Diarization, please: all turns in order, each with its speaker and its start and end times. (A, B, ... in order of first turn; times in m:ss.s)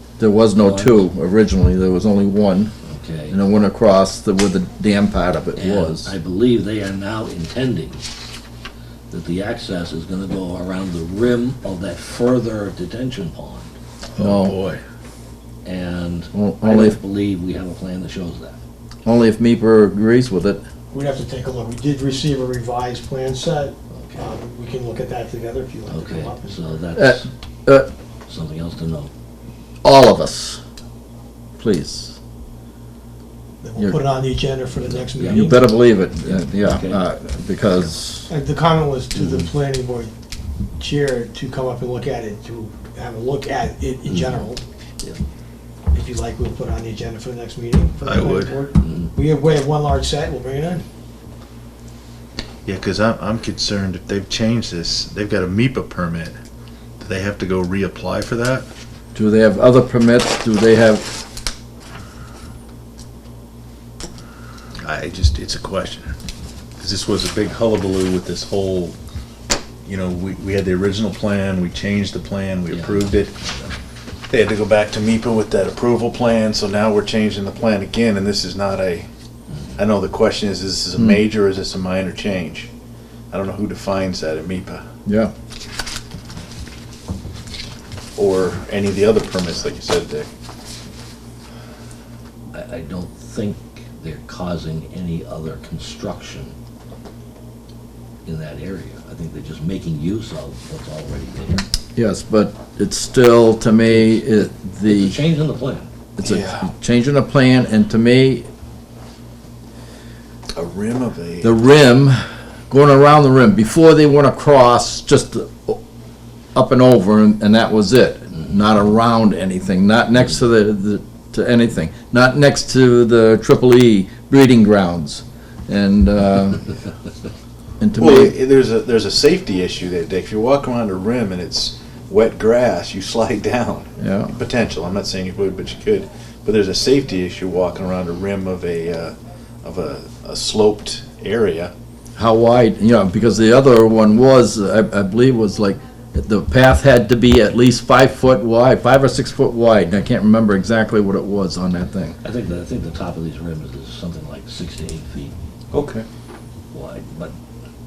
0:00.2-0:02.7 A
0:00.6-0:01.0 B
0:02.8-0:03.4 B
0:03.3-0:06.2 A
0:05.6-0:08.0 B
0:09.1-0:13.7 B
0:14.1-0:14.8 C
0:14.2-0:14.6 A
0:15.6-0:18.6 B
0:16.3-0:17.0 A
0:19.0-0:20.6 A
0:20.9-0:26.6 D
0:25.9-0:27.3 B
0:26.9-0:27.9 A
0:28.3-0:29.1 B
0:29.8-0:30.6 A
0:31.6-0:32.2 A
0:33.6-0:35.6 D
0:34.8-0:37.1 B
0:35.2-0:38.3 A
0:38.3-0:40.1 D
0:39.2-0:39.5 B
0:40.8-0:44.6 D
0:44.1-0:44.4 B
0:45.9-0:50.8 D
0:48.0-0:48.6 C
0:48.8-0:49.1 B
0:52.7-0:56.4 C
0:57.0-0:58.7 C
0:59.1-1:01.0 A
1:04.8-1:06.1 C
1:06.8-1:09.0 C
1:09.8-1:13.3 C
1:12.7-1:13.8 B
1:14.3-1:19.1 C
1:19.8-1:22.7 C
1:21.0-1:21.2 A
1:23.3-1:24.8 C
1:25.0-1:25.3 A
1:28.2-1:30.3 C
1:32.5-1:36.5 B
1:38.2-1:41.6 B
1:42.0-1:45.2 A
1:43.9-1:45.9 B
1:46.2-1:48.5 A
1:46.2-1:46.7 C
1:50.5-1:51.6 C
1:51.4-1:55.8 A
1:56.5-2:06.7 A
2:07.8-2:08.4 A
2:08.0-2:21.7 C
2:14.0-2:14.3 A
2:22.2-2:32.2 A
2:32.2-2:35.3 B
2:35.7-2:36.0 C
2:36.7-2:37.3 B